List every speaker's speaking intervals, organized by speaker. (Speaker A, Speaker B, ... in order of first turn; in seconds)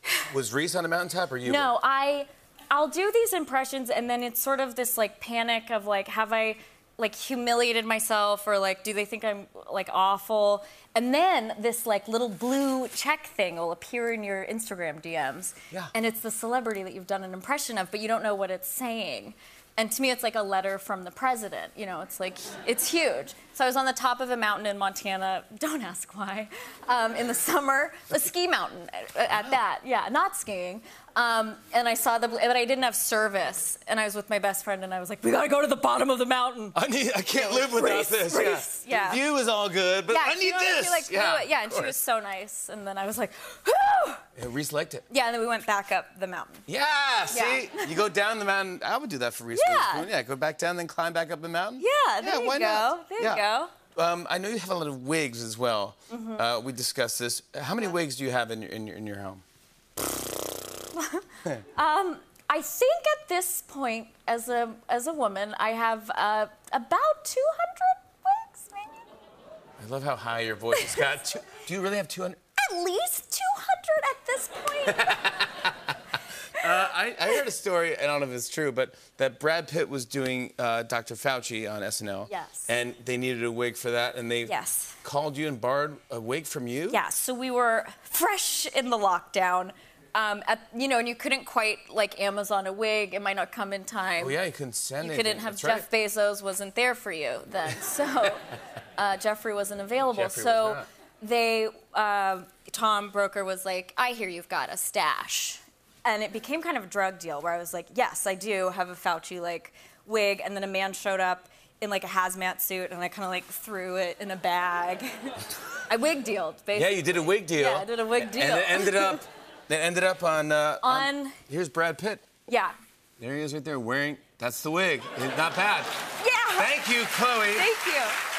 Speaker A: 0.2-1.7, 36.8-42.0, 44.4-45.0, 46.7-59.4, 69.8-72.4, 74.9-75.7, 76.6-87.0, 94.2-95.9, 100.0-100.9, 116.7-122.3, 123.2-125.9, 126.6-127.7
Speaker B: 1.4-36.8, 37.3-39.2, 40.1-44.2, 45.1-46.6, 47.3-48.0, 49.5-50.1, 51.8-53.7, 56.1-56.4, 60.9-69.0, 72.6-75.2, 82.3-82.7, 84.4-85.0, 86.9-94.4, 95.0-119.2, 120.8-121.4, 122.5-122.8, 126.2-126.8, 127.5-128.2